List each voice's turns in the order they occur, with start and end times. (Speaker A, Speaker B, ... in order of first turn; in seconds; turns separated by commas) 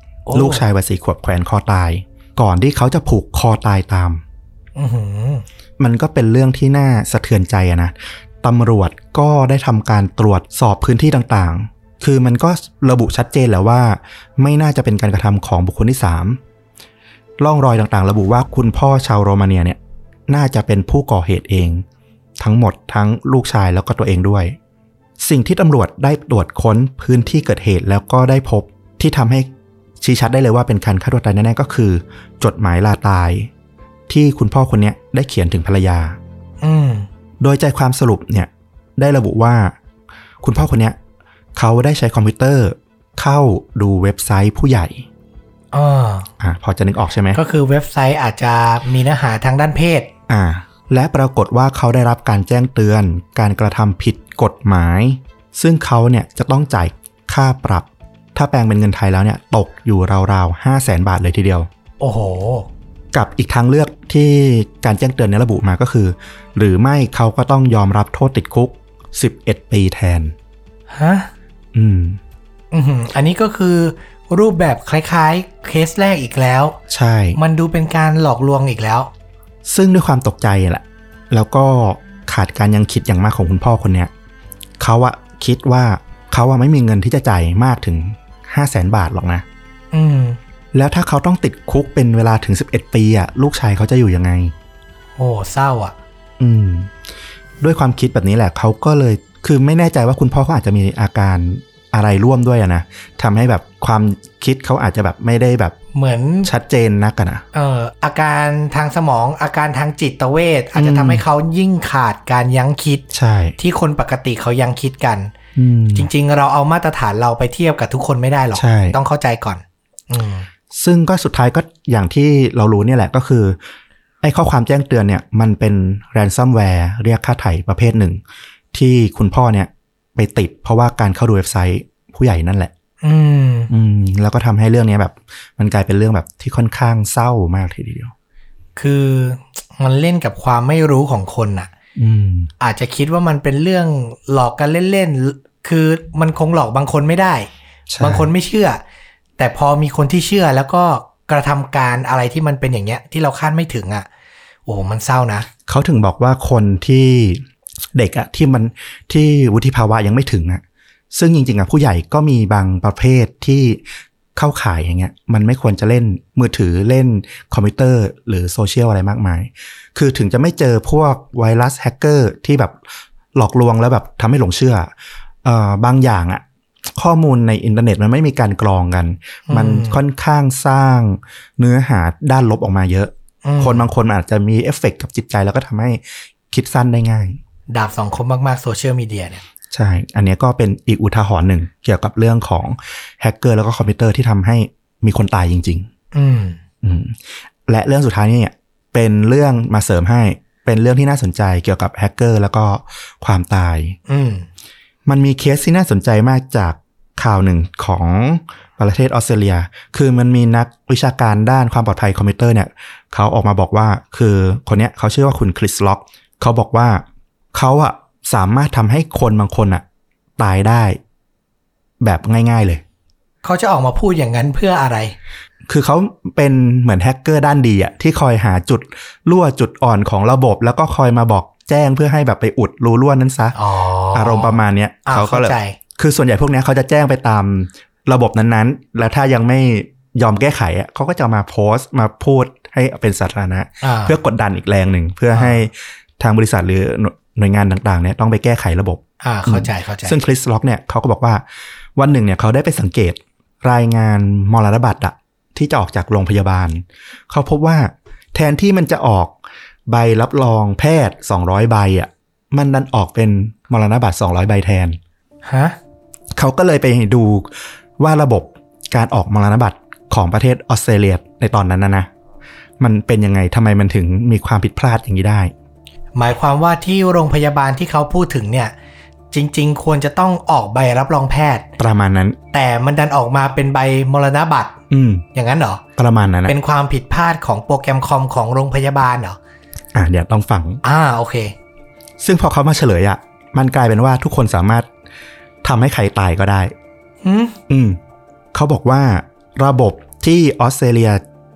Speaker A: 0.3-0.7, Speaker B: 0.3-4.2, Speaker A: 4.8-5.4, Speaker B: 5.8-16.4, Speaker B: 17.4-21.8, Speaker B: 22.4-24.5, Speaker B: 25.2-29.5, Speaker B: 30.0-33.5, Speaker B: 34.1-36.2, Speaker A: 36.6-37.1, Speaker B: 37.4-39.7, Speaker B: 40.4-41.0, Speaker B: 41.5-45.0, Speaker A: 45.7-46.3, Speaker B: 46.4-47.4, Speaker A: 47.3-50.1, Speaker B: 50.3-61.7, Speaker A: 62.0-62.7, Speaker B: 63.1-70.3, Speaker A: 70.9-71.3, Speaker B: 71.7-72.2, Speaker A: 72.7-76.8, Speaker B: 76.9-77.4, Speaker A: 77.3-79.1, Speaker B: 79.7-84.1, Speaker B: 84.8-89.4, Speaker A: 89.9-90.4, Speaker B: 90.7-94.5, Speaker A: 95.2-95.9, Speaker B: 96.4-96.9, Speaker B: 97.6-105.7, Speaker A: 105.9-106.5, Speaker B: 106.4-107.4, Speaker A: 107.5-113.0, Speaker B: 110.7-111.2, Speaker B: 113.1-113.5, Speaker A: 113.6-115.3, Speaker B: 115.5-116.1, Speaker A: 115.9-120.5, Speaker B: 118.5-119.0, Speaker B: 120.7-123.6, Speaker B: 124.2-128.2, Speaker B: 128.7-132.7, Speaker A: 133.0-133.7, Speaker B: 133.7-138.1, Speaker A: 138.8-141.7, Speaker B: 141.9-142.5, Speaker A: 142.6-147.5, Speaker B: 147.9-148.3, Speaker A: 148.0-148.8, Speaker A: 149.4-154.1, Speaker A: 154.7-155.5, Speaker B: 155.7-157.4, Speaker B: 157.9-160.6, Speaker B: 161.1-163.8, Speaker B: 164.3-172.8, Speaker B: 173.3-174.9, Speaker B: 175.4-176.4, Speaker B: 176.9-187.4, Speaker A: 179.5-180.0, Speaker A: 183.4-183.9, Speaker A: 187.7-189.4, Speaker B: 189.7-195.9, Speaker A: 196.1-196.6, Speaker B: 196.8-197.2, Speaker B: 197.7-204.0, Speaker A: 204.1-204.5, Speaker B: 205.1-217.0, Speaker B: 217.5-219.8, Speaker B: 220.4-221.0, Speaker B: 222.0-222.8, Speaker A: 223.4-225.1, Speaker B: 225.7-233.6, Speaker A: 233.5-235.8, Speaker B: 234.1-251.4, Speaker A: 243.8-244.2, Speaker A: 245.3-245.6, Speaker A: 249.2-250.2, Speaker B: 251.9-259.3, Speaker B: 259.9-265.0, Speaker A: 265.4-265.8, Speaker B: 266.4-272.1, Speaker B: 272.8-275.5, Speaker A: 276.1-278.7, Speaker A: 279.3-281.7, Speaker B: 281.8-282.4, Speaker A: 282.5-284.8, Speaker B: 284.9-285.2, Speaker A: 285.3-285.8, Speaker B: 286.0-286.5, Speaker A: 286.4-289.4, Speaker B: 289.9-290.8, Speaker A: 290.8-291.5, Speaker B: 292.2-294.9, Speaker B: 295.6-296.7, Speaker A: 297.2-297.6, Speaker B: 297.7-298.0, Speaker B: 298.5-301.2